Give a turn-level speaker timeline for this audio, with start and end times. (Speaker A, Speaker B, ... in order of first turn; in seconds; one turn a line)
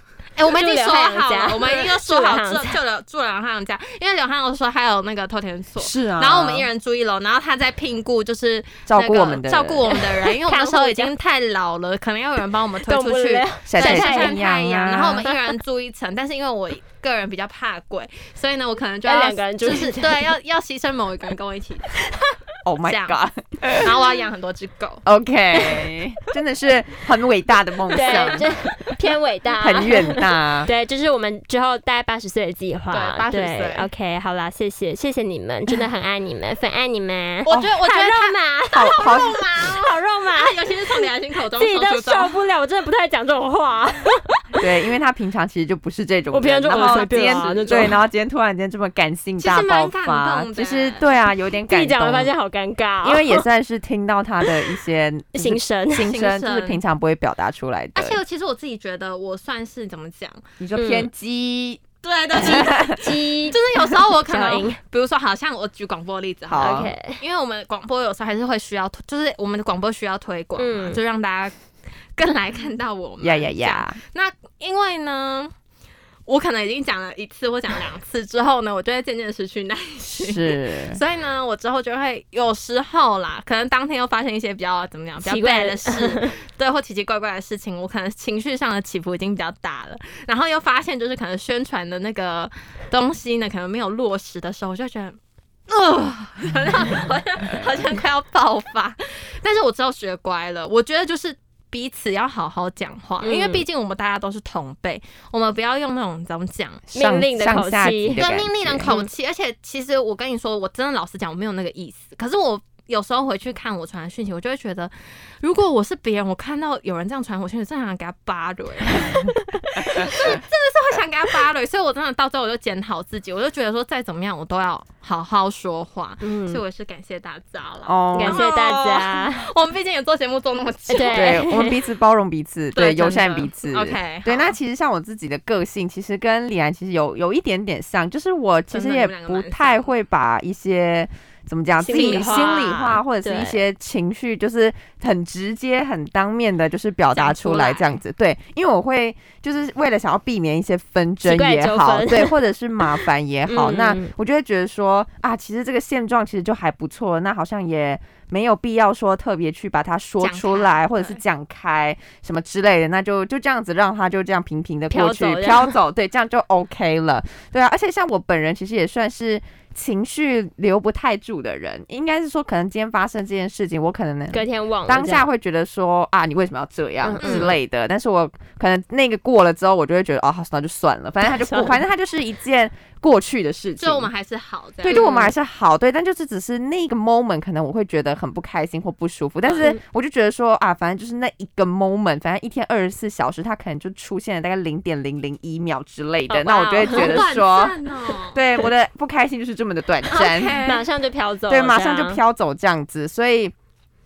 Speaker A: 0.4-22.1
Speaker B: 0.5-2.8
Speaker C: 5.8-6.7
Speaker C: 8.9-9.9
Speaker B: 9.9-11.1
Speaker B: 12.9-14.4
Speaker C: 13.7-15.2
Speaker B: 15.2-15.5
Speaker B: 19.1-20.3
Speaker C: 22.6-23.9
Speaker A: 22.8-23.2
Speaker A: 23.7-25.0
Speaker C: 25.1-28.9
Speaker B: 27.9-41.0
Speaker A: 28.0-28.4
Speaker C: 29.6-30.7
Speaker A: 32.9-33.9
Speaker A: 37.5-42.4
Speaker C: 38.7-39.4
Speaker B: 41.5-44.6
Speaker C: 44.6-52.3
Speaker B: 46.3-48.0
Speaker A: 46.7-47.7
Speaker A: 49.4-51.1
Speaker B: 51.7-53.4
Speaker C: 53.0-58.2
Speaker B: 55.3-56.1
Speaker A: 56.1-56.8
Speaker A: 58.0-60.5
Speaker C: 60.6-61.8
Speaker B: 60.8-61.1
Speaker A: 62.0-71.6
Speaker C: 62.4-63.1
Speaker B: 62.5-63.6
Speaker B: 64.2-64.8
Speaker C: 66.5-66.9
Speaker B: 66.6-67.2
Speaker B: 70.6-71.0
Speaker A: 72.2-75.5
Speaker C: 73.2-74.0
Speaker A: 76.3-95.2
Speaker C: 80.1-81.0
Speaker B: 85.2-86.4
Speaker A: 95.7-106.8
Speaker B: 103.2-103.7
Speaker C: 106.9-108.9
Speaker B: 106.9-108.3
Speaker A: 108.2-131.5
Speaker B: 119.8-120.1
Speaker C: 119.8-120.4
Speaker B: 126.2-126.6
Speaker C: 127.9-128.5
Speaker B: 128.1-129.5
Speaker B: 130.9-131.8
Speaker C: 131.1-184.1
Speaker A: 132.8-134.6
Speaker A: 138.7-139.9
Speaker B: 141.8-143.6
Speaker A: 141.9-142.7
Speaker A: 147.2-148.0
Speaker B: 151.2-154.1
Speaker A: 160.2-161.2
Speaker B: 164.9-165.7
Speaker B: 174.3-175.3
Speaker B: 177.0-177.5
Speaker A: 177.2-177.6
Speaker B: 181.2-181.8
Speaker A: 183.8-185.1
Speaker C: 184.8-200.7
Speaker B: 184.9-185.3
Speaker B: 196.3-197.3
Speaker A: 196.8-198.4
Speaker A: 200.1-200.8
Speaker B: 200.6-202.2
Speaker C: 201.5-203.5